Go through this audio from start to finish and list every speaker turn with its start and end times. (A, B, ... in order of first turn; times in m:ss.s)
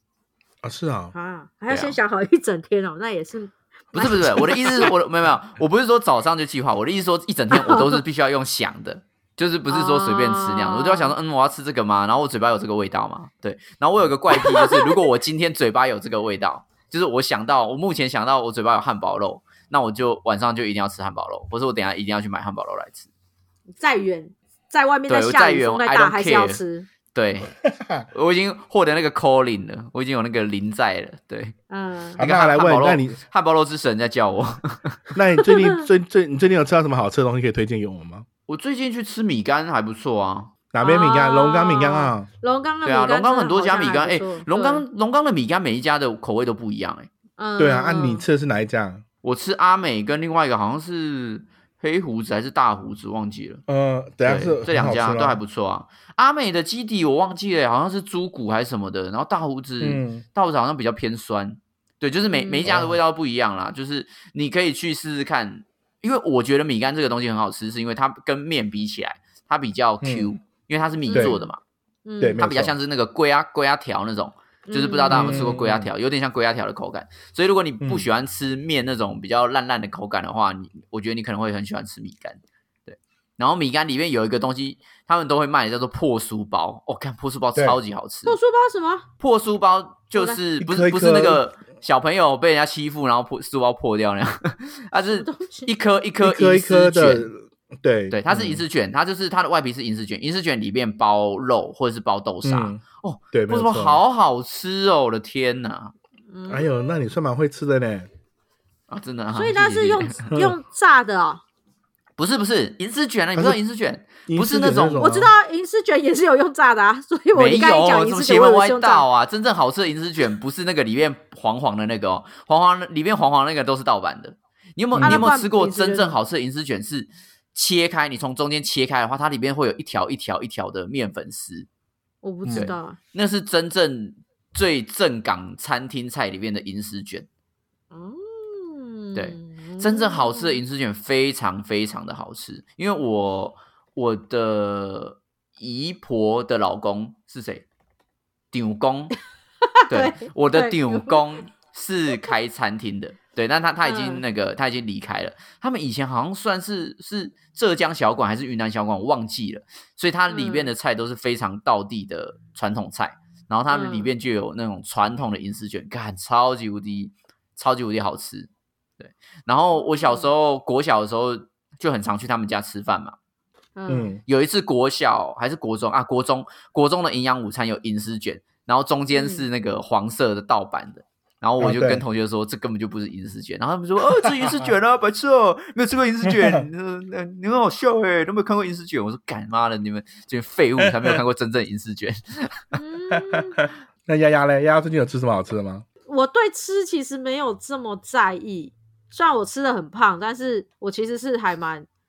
0:00.6-0:01.1 A
0:01.1-0:04.9 B
0:01.7-0:02.0 C
0:03.9-0:23.1 C
0:07.5-0:08.0 B
0:09.7-0:11.1 B
0:14.3-0:15.1 B
0:23.8-0:26.9 B
0:25.1-0:26.6 C
0:27.1-0:27.6 C
0:27.7-0:28.0 A
0:28.1-0:31.6 C
0:31.7-0:32.2 B
0:32.2-0:33.2 A
0:32.2-0:35.1 C
0:35.1-0:38.2 A
0:35.4-0:35.8 B
0:38.5-0:40.5 C
0:40.7-0:42.3 A
0:40.8-0:44.8 B
0:42.8-0:47.1 C
0:47.4-0:48.2 B
0:47.6-0:49.0 A
0:49.2-0:53.6 C
0:53.7-0:55.4 A
0:54.2-1:11.6 C
0:59.8-1:00.2 A
1:02.3-1:02.7 B
1:02.6-1:03.0 A
1:10.0-1:10.3 A
1:11.0-1:11.5 B
1:11.1-1:11.4 A
1:12.0-1:12.4 B
1:12.2-1:12.7 A
1:12.4-1:28.4 C
1:14.7-1:15.5 B
1:15.1-1:15.9 A
1:17.8-1:18.1 A
1:28.2-1:29.1 B
1:29.2-1:37.3 C
1:30.1-1:30.4 B
1:30.6-1:31.4 A
1:35.1-1:35.7 B
1:36.2-1:38.6 A
1:38.1-1:45.9 C
1:42.4-1:42.8 A
1:43.3-1:44.0 A
1:46.3-1:46.7 B
1:46.5-1:48.1 A
1:48.9-1:50.1 C
1:49.3-1:51.4 B
1:52.2-1:55.0 C
1:54.2-1:55.3 A
1:55.0-1:59.1 B
1:57.3-2:11.7 C
2:04.9-2:05.3 A
2:05.0-2:06.2 B
2:12.2-2:13.0 B
2:12.4-2:12.7 A
2:12.5-2:17.3 C
2:17.9-2:20.6 B
2:19.1-2:27.6 C
2:28.5-2:29.1 C
2:29.8-2:31.2 B
2:29.9-2:48.5 C
2:33.8-2:34.2 B
2:40.3-2:40.7 B
2:43.7-2:44.1 B
2:49.0-2:53.1 C
2:49.7-2:50.3 B
2:53.8-2:54.2 B
2:53.9-2:54.2 A
2:54.2-3:12.8 C
2:59.2-2:59.4 B
3:01.6-3:02.0 A
3:06.2-3:06.6 A
3:12.8-3:13.6 B
3:14.1-3:15.8 A
3:16.1-3:21.9 B